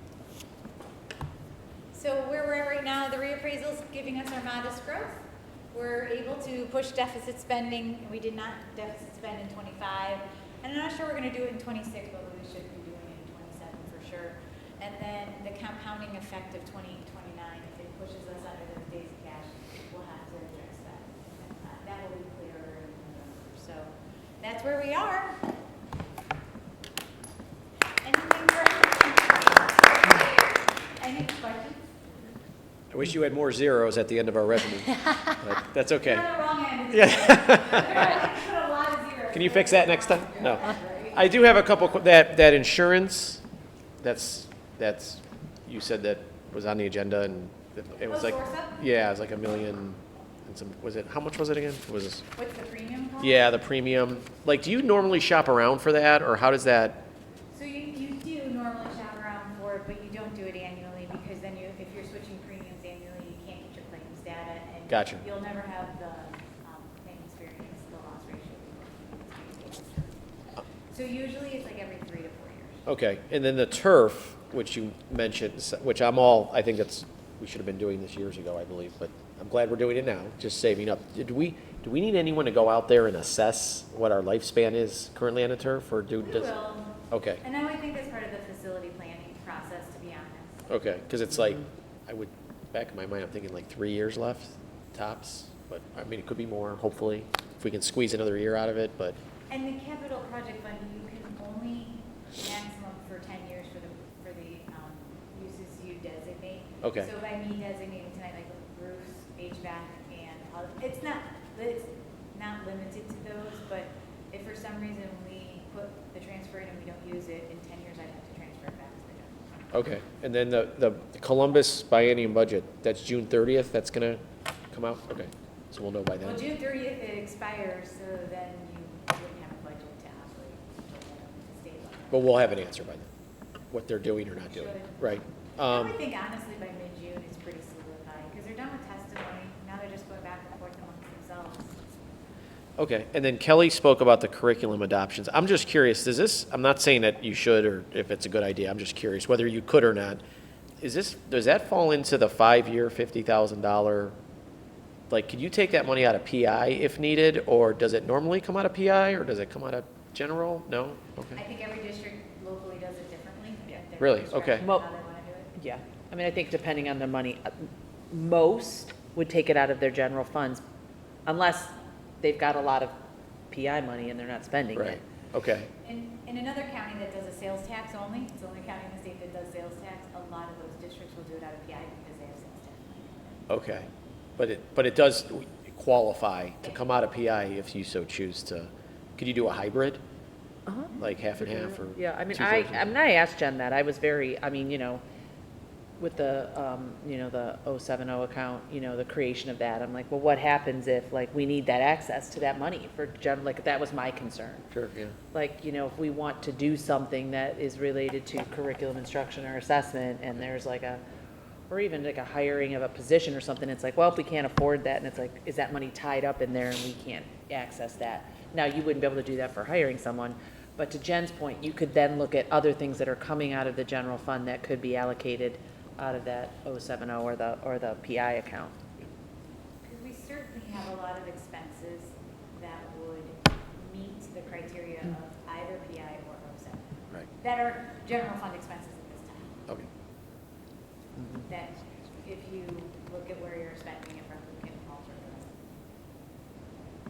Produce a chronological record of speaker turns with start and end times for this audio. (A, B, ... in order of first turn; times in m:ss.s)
0:01.9-0:25.5 A
0:28.0-0:31.8 A
0:32.9-0:38.3 B
0:36.2-0:41.2 A
0:39.3-0:43.4 B
0:44.0-0:52.2 B
0:48.1-0:48.8 A
0:52.4-0:53.4 A
0:53.2-0:57.0 B
0:57.5-1:10.1 A
1:04.9-1:05.2 B
1:10.9-1:12.8 A
1:12.8-1:26.5 B
1:26.2-1:30.7 A
1:27.1-1:27.4 B
1:30.7-1:39.2 B
1:39.5-1:59.5 A
1:46.8-1:47.1 B
1:59.7-2:04.2 B
2:04.7-2:06.4 B
2:06.2-2:12.3 A
2:12.1-2:13.1 B
2:13.7-2:16.0 B
2:14.6-2:14.9 A
2:15.7-2:21.8 A
2:22.8-2:30.2 B
2:30.8-2:34.1 B
2:35.1-2:41.4 B
2:41.4-2:45.6 A
2:44.0-2:44.6 B
2:44.6-2:44.9 C
2:45.6-2:50.6 C
2:51.2-2:52.9 C
2:53.5-2:55.0 C
2:54.7-2:55.7 B
2:55.8-3:03.5 A
3:03.5-3:10.0 B
3:10.7-3:15.0 C
3:11.0-3:12.9 B
3:16.0-3:24.7 C
3:24.7-3:25.2 B
3:25.3-3:31.0 C
3:31.7-3:48.8 C
3:49.8-3:59.6 A
4:01.5-4:05.6 A